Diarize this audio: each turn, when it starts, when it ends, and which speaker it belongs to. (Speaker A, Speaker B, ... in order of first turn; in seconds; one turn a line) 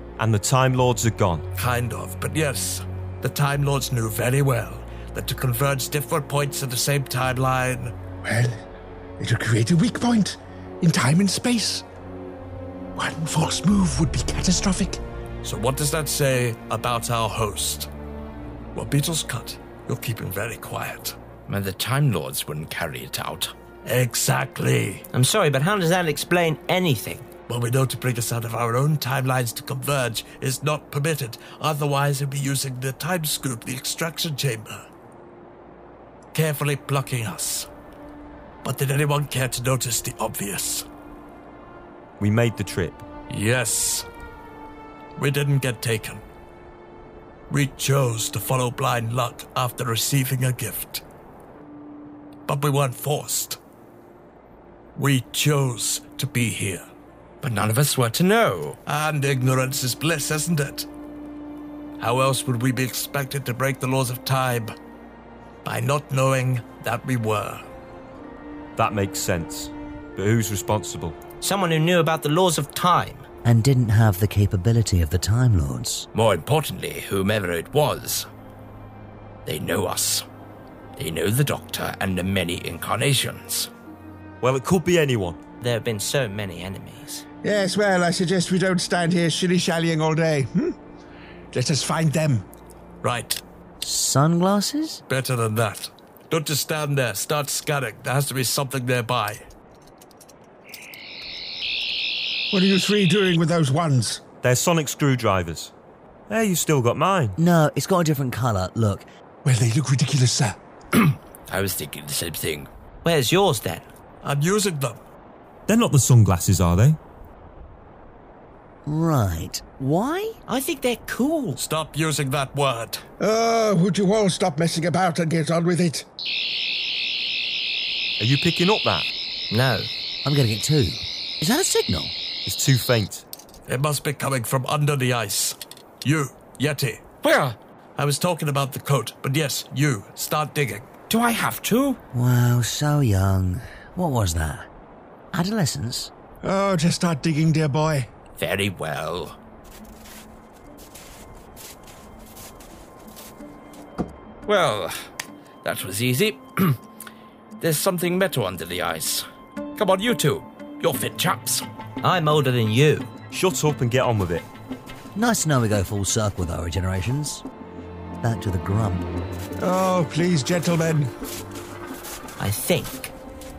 Speaker A: 0.2-1.4
Speaker B: 1.5-7.9
Speaker C: 8.2-8.5
Speaker C: 9.2-11.8
Speaker C: 12.9-15.0
Speaker B: 15.4-17.9
Speaker B: 18.7-21.1
Speaker D: 21.5-23.5
Speaker B: 23.8-25.0
Speaker E: 25.1-27.2
Speaker B: 27.5-34.8
Speaker B: 36.3-37.7
Speaker B: 38.6-40.9
Speaker A: 42.2-43.0
Speaker B: 43.3-44.0
Speaker B: 45.2-46.2
Speaker B: 47.5-51.0
Speaker B: 52.5-53.6
Speaker B: 55.0-56.9
Speaker D: 57.4-58.8
Speaker B: 58.9-60.9
Speaker B: 62.0-64.7
Speaker B: 65.6-67.6
Speaker A: 68.8-71.2
Speaker D: 71.4-73.2
Speaker E: 72.7-73.2
Speaker F: 73.4-76.1
Speaker D: 76.1-78.3
Speaker D: 79.5-80.2
Speaker D: 81.0-83.7
Speaker A: 84.4-85.4
Speaker E: 85.6-87.1
Speaker D: 85.8-87.2
Speaker C: 87.4-90.7
Speaker C: 91.5-92.4
Speaker B: 93.0-93.4
Speaker F: 93.8-95.0
Speaker B: 95.1-99.4
Speaker C: 102.5-104.2
Speaker A: 104.4-105.7
Speaker A: 106.3-107.3
Speaker F: 107.4-109.0
Speaker C: 109.4-110.6
Speaker D: 110.9-112.7
Speaker E: 113.0-113.8
Speaker B: 114.2-115.0
Speaker A: 115.7-117.0
Speaker F: 118.8-120.4
Speaker E: 120.5-121.6
Speaker B: 121.5-123.0
Speaker C: 123.2-126.0
Speaker A: 128.2-129.1
Speaker E: 129.5-129.9
Speaker F: 130.2-132.1
Speaker A: 132.4-133.2
Speaker B: 133.7-137.0
Speaker D: 137.2-137.6
Speaker B: 138.0-140.9
Speaker D: 141.1-142.0
Speaker F: 142.1-144.7
Speaker F: 145.3-146.1
Speaker C: 146.4-148.1
Speaker D: 148.4-149.3
Speaker D: 154.4-154.9
Speaker D: 155.6-156.8
Speaker D: 157.6-159.2
Speaker D: 159.8-161.6
Speaker E: 162.0-163.1
Speaker A: 163.3-164.5
Speaker F: 165.1-167.4
Speaker F: 168.2-169.1
Speaker C: 169.6-171.1
Speaker E: 172.4-173.1